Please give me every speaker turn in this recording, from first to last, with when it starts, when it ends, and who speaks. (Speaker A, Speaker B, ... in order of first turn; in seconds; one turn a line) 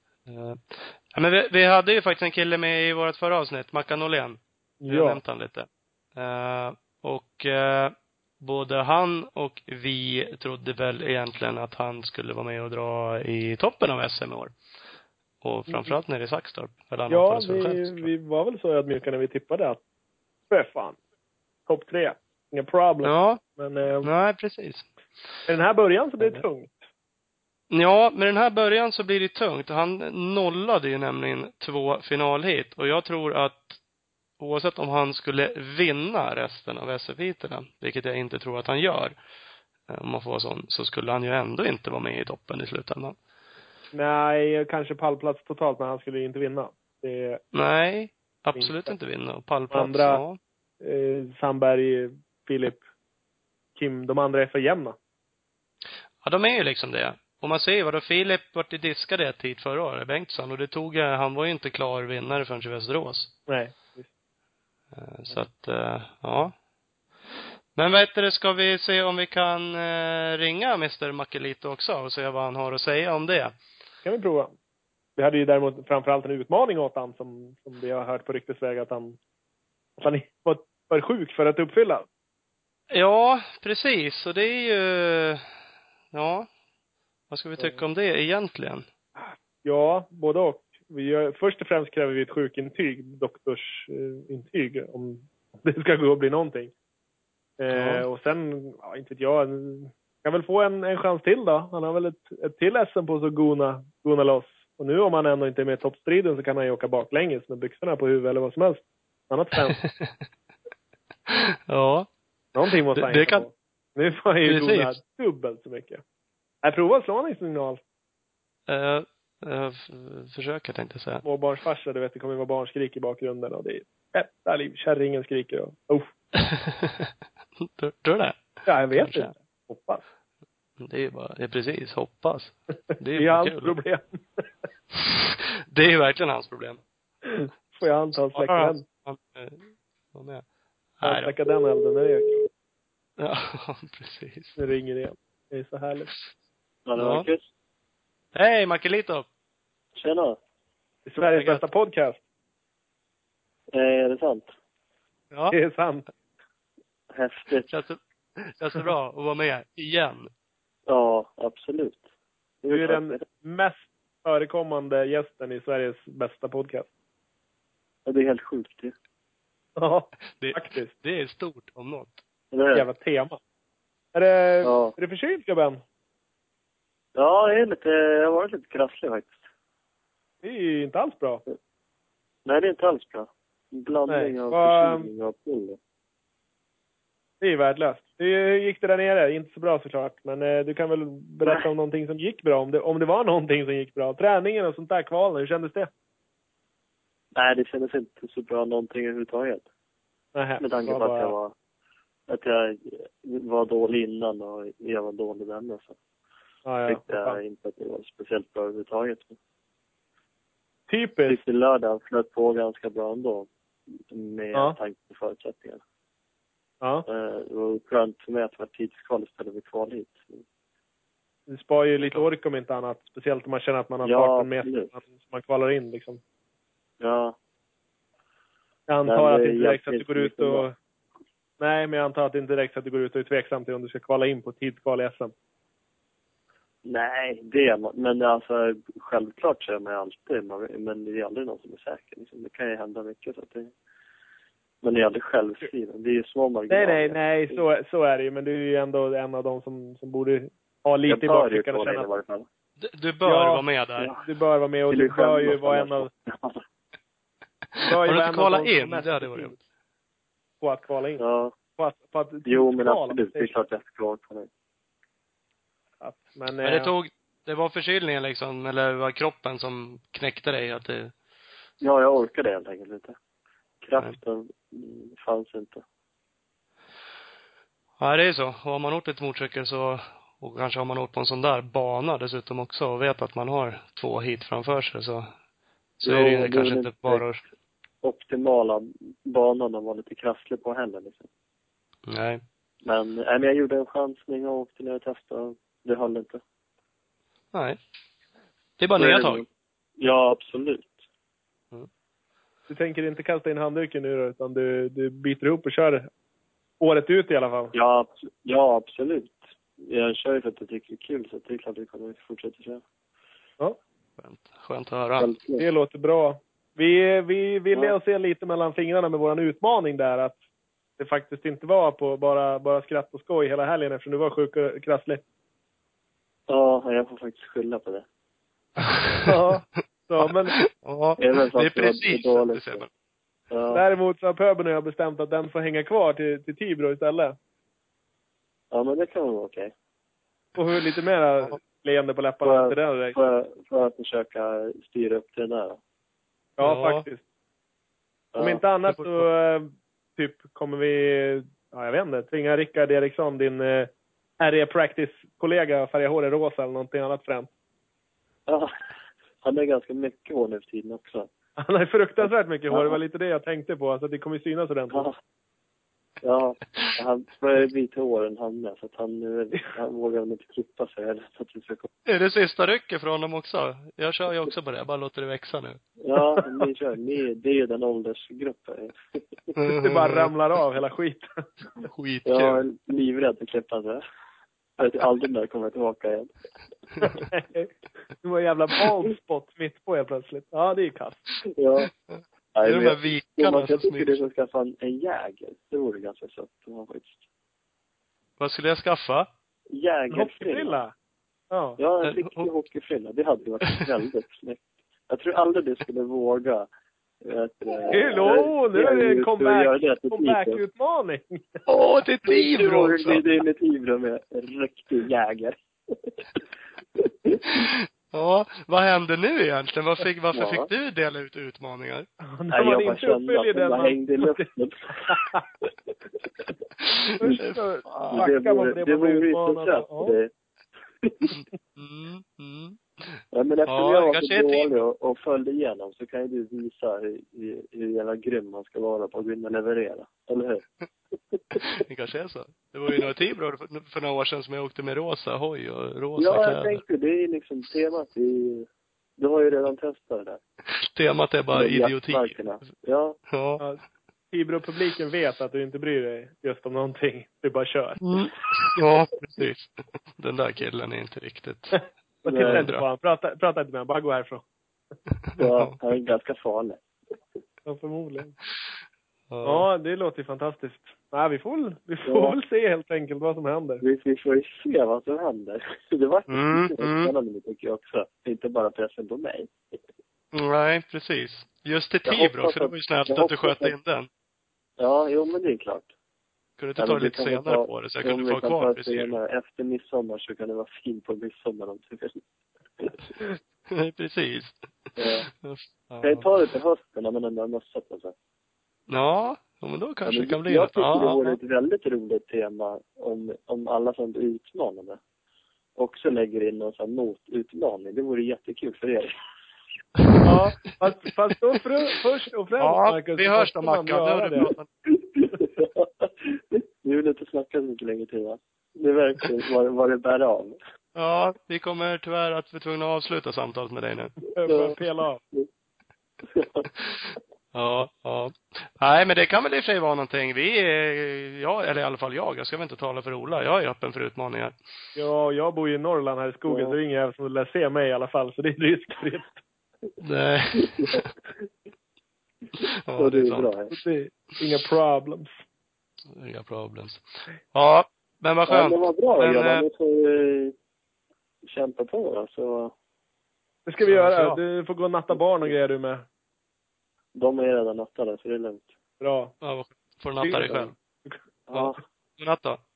Speaker A: 0.3-14.5
Speaker B: 4.8-5.2
Speaker A: 15.4-18.1
Speaker B: 15.7-15.9
Speaker B: 17.1-19.8
Speaker B: 20.5-21.0
Speaker B: 21.7-24.1
Speaker A: 23.0-23.4
Speaker A: 24.0-24.9
Speaker B: 25.5-26.8
Speaker A: 27.7-33.8
Speaker A: 34.4-39.1
Speaker A: 39.9-43.1
Speaker B: 43.9-47.4
Speaker A: 47.5-50.4
Speaker B: 48.5-48.9
Speaker B: 49.7-50.2
Speaker B: 50.8-52.8
Speaker B: 53.7-55.0
Speaker A: 56.2-63.3
Speaker B: 63.5-64.1
Speaker A: 64.9-66.5
Speaker A: 67.7-73.5
Speaker B: 74.0-74.5
Speaker B: 75.2-79.2
Speaker B: 80.0-82.1
Speaker A: 82.9-85.4
Speaker A: 86.1-86.5
Speaker A: 87.3-88.8
Speaker B: 89.2-96.7
Speaker B: 97.6-109.8
Speaker A: 97.7-98.0
Speaker A: 109.7-110.1
Speaker A: 111.3-112.1
Speaker B: 112.5-116.0
Speaker A: 112.9-113.5
Speaker A: 114.4-115.0
Speaker B: 116.6-117.8
Speaker A: 118.7-121.2
Speaker B: 121.2-126.1
Speaker A: 126.3-129.3
Speaker B: 128.7-130.0
Speaker A: 130.8-133.8
Speaker B: 133.2-134.4
Speaker A: 134.9-136.8
Speaker B: 137.3-138.8
Speaker A: 138.3-140.4
Speaker A: 141.0-141.3
Speaker B: 141.0-142.5
Speaker A: 143.2-144.6
Speaker B: 144.6-146.1
Speaker C: 146.8-147.4
Speaker A: 146.9-147.3
Speaker A: 148.3-149.3
Speaker C: 149.9-150.4
Speaker B: 151.1-152.2
Speaker A: 151.3-151.6
Speaker C: 153.7-154.5
Speaker A: 155.3-155.6
Speaker B: 155.5-156.1
Speaker C: 157.1-157.7
Speaker A: 157.7-160.3
Speaker C: 160.9-162.0
Speaker C: 162.6-163.2
Speaker B: 162.7-166.9
Speaker C: 168.1-168.9
Speaker B: 169.8-170.9
Speaker A: 170.4-172.2
Speaker C: 172.5-172.9
Speaker B: 172.7-173.4
Speaker B: 174.1-175.8
Speaker C: 174.6-174.9
Speaker C: 177.1-179.4
Speaker B: 180.4-181.4
Speaker C: 182.4-185.8
Speaker B: 184.1-185.1
Speaker B: 187.4-195.9
Speaker C: 197.3-199.6
Speaker B: 200.3-201.3
Speaker C: 200.6-201.5
Speaker C: 202.3-206.0
Speaker B: 206.7-207.4
Speaker C: 206.9-209.3
Speaker B: 210.9-211.4
Speaker C: 211.2-213.5
Speaker C: 214.1-215.8
Speaker C: 217.1-220.4
Speaker B: 221.5-226.2
Speaker C: 224.0-224.9
Speaker C: 227.0-227.3
Speaker B: 228.9-230.7
Speaker C: 229.1-230.7
Speaker B: 231.6-235.3
Speaker C: 236.8-243.7
Speaker C: 244.8-247.6
Speaker B: 246.7-252.1
Speaker C: 251.1-252.4
Speaker A: 252.8-254.1
Speaker B: 253.2-253.6
Speaker B: 254.2-256.1
Speaker C: 254.9-256.6
Speaker A: 257.7-259.6
Speaker B: 257.8-259.6
Speaker B: 260.6-261.2
Speaker C: 261.2-261.6
Speaker B: 261.8-263.5
Speaker C: 262.4-264.5
Speaker B: 266.0-266.9
Speaker A: 266.6-271.1
Speaker C: 271.8-273.1
Speaker C: 273.8-275.8
Speaker A: 278.0-285.3
Speaker A: 286.0-287.4
Speaker C: 286.0-287.2
Speaker C: 288.0-291.3
Speaker A: 292.1-292.4
Speaker C: 292.8-296.4
Speaker A: 297.5-297.8
Speaker A: 298.8-299.4
Speaker C: 299.0-299.4
Speaker C: 300.0-301.0
Speaker B: 302.7-306.1
Speaker B: 306.8-307.7
Speaker C: 307.7-312.8
Speaker A: 314.2-315.3
Speaker C: 315.2-315.6
Speaker B: 315.6-320.4
Speaker B: 321.0-325.2
Speaker C: 326.5-328.1
Speaker A: 328.8-329.2
Speaker B: 329.2-330.6
Speaker A: 330.6-332.9
Speaker C: 331.2-332.8
Speaker C: 333.5-333.8
Speaker B: 333.7-337.4
Speaker C: 338.7-339.7
Speaker B: 340.6-343.2
Speaker C: 342.4-345.8
Speaker B: 346.6-347.2
Speaker A: 346.6-347.0
Speaker C: 348.3-348.6
Speaker B: 348.4-357.5
Speaker C: 359.4-361.3
Speaker B: 361.6-365.1
Speaker C: 364.9-365.1
Speaker C: 366.2-371.9
Speaker A: 372.1-375.8
Speaker C: 376.0-379.2
Speaker A: 379.6-380.3
Speaker B: 379.7-381.4
Speaker A: 381.8-382.6
Speaker C: 382.2-384.0
Speaker C: 384.8-386.3
Speaker B: 387.0-387.7
Speaker B: 388.2-391.3
Speaker C: 391.6-391.9
Speaker A: 392.1-394.2
Speaker C: 392.5-397.2
Speaker A: 398.4-399.3
Speaker C: 399.7-400.8
Speaker B: 400.1-400.9
Speaker B: 401.5-401.8
Speaker C: 401.8-406.7
Speaker A: 402.0-402.5
Speaker C: 407.2-410.6
Speaker B: 407.9-411.6
Speaker A: 411.7-413.2
Speaker C: 412.3-416.1
Speaker C: 417.0-417.4
Speaker A: 417.4-422.1
Speaker C: 420.3-420.7
Speaker B: 422.3-424.5
Speaker C: 422.5-425.7
Speaker B: 425.1-425.4
Speaker A: 426.8-428.3
Speaker B: 427.2-430.1
Speaker C: 428.1-430.3
Speaker C: 431.0-431.3
Speaker A: 431.8-434.8
Speaker C: 433.3-440.6
Speaker C: 441.3-441.6
Speaker A: 441.5-446.8
Speaker C: 446.2-450.4
Speaker A: 450.9-452.4
Speaker C: 451.5-453.2
Speaker A: 453.3-453.6
Speaker B: 454.3-458.0
Speaker A: 458.0-461.8
Speaker B: 462.2-464.4
Speaker C: 462.2-462.7
Speaker A: 462.4-462.8
Speaker A: 465.4-465.8
Speaker C: 465.4-466.8
Speaker B: 467.6-468.3
Speaker A: 469.3-469.7
Speaker B: 469.4-473.8
Speaker C: 472.1-472.4
Speaker C: 473.8-479.8
Speaker A: 476.3-477.1
Speaker A: 480.3-484.1
Speaker C: 482.0-483.7
Speaker C: 484.8-485.9
Speaker A: 486.6-489.2
Speaker C: 486.8-492.2
Speaker A: 493.7-494.6
Speaker C: 495.0-495.3
Speaker A: 495.4-496.3
Speaker C: 496.0-498.1
Speaker A: 498.9-501.4
Speaker C: 500.1-505.0
Speaker C: 505.8-509.1
Speaker B: 510.2-514.5
Speaker A: 512.6-514.7
Speaker C: 514.9-520.6
Speaker A: 520.9-524.1
Speaker B: 524.4-525.2
Speaker C: 524.4-524.8
Speaker C: 526.3-526.7
Speaker A: 526.8-534.5
Speaker B: 535.0-539.4
Speaker C: 536.5-536.8
Speaker A: 540.0-541.1
Speaker C: 540.6-541.0
Speaker A: 542.9-543.5
Speaker C: 542.9-543.7
Speaker B: 543.7-545.3
Speaker A: 546.1-549.6
Speaker C: 548.5-550.5
Speaker C: 551.4-552.7
Speaker B: 553.6-556.0
Speaker A: 553.8-554.4
Speaker C: 557.1-558.7
Speaker B: 559.0-559.3
Speaker A: 559.4-560.7
Speaker B: 560.2-561.2
Speaker C: 561.5-561.8
Speaker A: 561.5-562.6